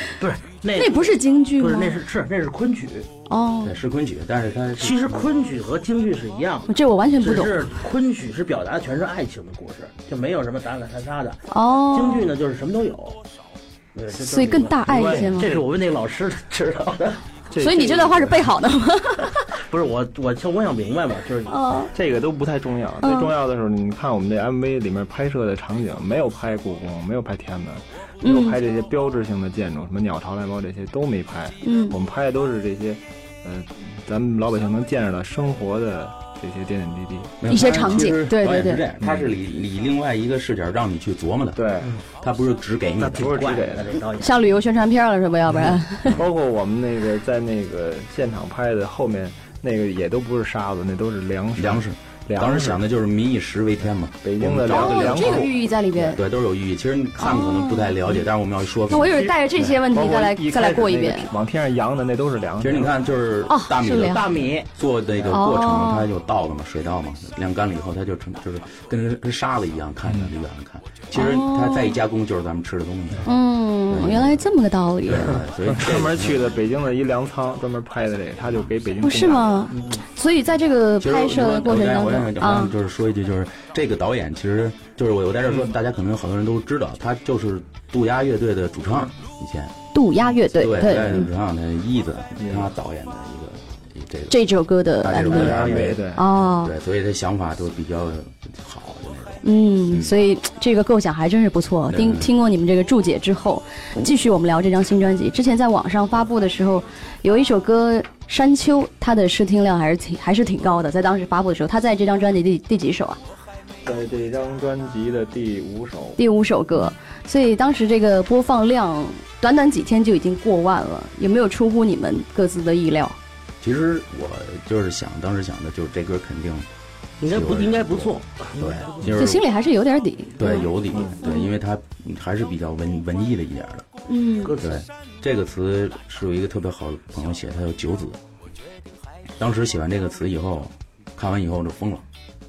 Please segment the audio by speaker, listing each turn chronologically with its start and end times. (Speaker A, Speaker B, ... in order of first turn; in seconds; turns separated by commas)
Speaker A: 0.2-3.1, Speaker B: 0.8-2.0, Speaker B: 3.3-3.8, Speaker C: 3.6-5.3, Speaker A: 4.8-13.2, Speaker B: 6.7-7.7, Speaker B: 11.5-12.2, Speaker A: 13.9-17.3, Speaker B: 14.2-15.5, Speaker D: 15.0-15.6, Speaker D: 17.5-18.5, Speaker B: 17.6-19.4, Speaker A: 19.6-21.8, Speaker B: 21.5-21.9, Speaker D: 21.9-37.9, Speaker B: 23.0-23.3, Speaker B: 28.2-28.6, Speaker B: 31.6-32.0, Speaker C: 37.4-41.6, Speaker B: 37.5-38.8, Speaker D: 39.0-39.3, Speaker D: 41.6-41.9, Speaker C: 42.2-43.4, Speaker A: 43.0-44.4, Speaker D: 43.2-44.0, Speaker B: 44.2-46.2, Speaker D: 45.6-52.8, Speaker C: 51.6-55.5, Speaker D: 54.2-56.1, Speaker B: 54.7-56.2, Speaker C: 56.1-59.2, Speaker B: 57.2-58.2, Speaker B: 58.9-61.3, Speaker A: 59.1-59.4, Speaker D: 59.6-62.9, Speaker A: 60.5-60.8, Speaker C: 62.6-73.3, Speaker B: 63.5-64.2, Speaker A: 64.0-64.7, Speaker B: 65.3-66.1, Speaker D: 70.1-70.3, Speaker B: 71.1-72.0, Speaker B: 73.2-75.4, Speaker C: 73.9-74.4, Speaker C: 75.1-76.6, Speaker D: 75.7-79.7, Speaker B: 79.0-82.7, Speaker A: 79.7-80.0, Speaker C: 81.0-89.8, Speaker B: 89.9-91.3, Speaker C: 90.6-94.4, Speaker D: 92.4-92.7, Speaker B: 94.3-96.7, Speaker C: 95.0-100.2, Speaker D: 95.2-96.2, Speaker B: 99.4-113.2, Speaker C: 101.9-102.3, Speaker D: 113.8-116.2, Speaker B: 116.2-123.2, Speaker C: 123.6-126.7, Speaker A: 127.2-129.2, Speaker C: 127.2-129.5, Speaker B: 129.2-131.5, Speaker C: 130.4-133.9, Speaker B: 134.1-134.5, Speaker A: 134.4-134.8, Speaker C: 134.6-138.2, Speaker C: 139.4-142.1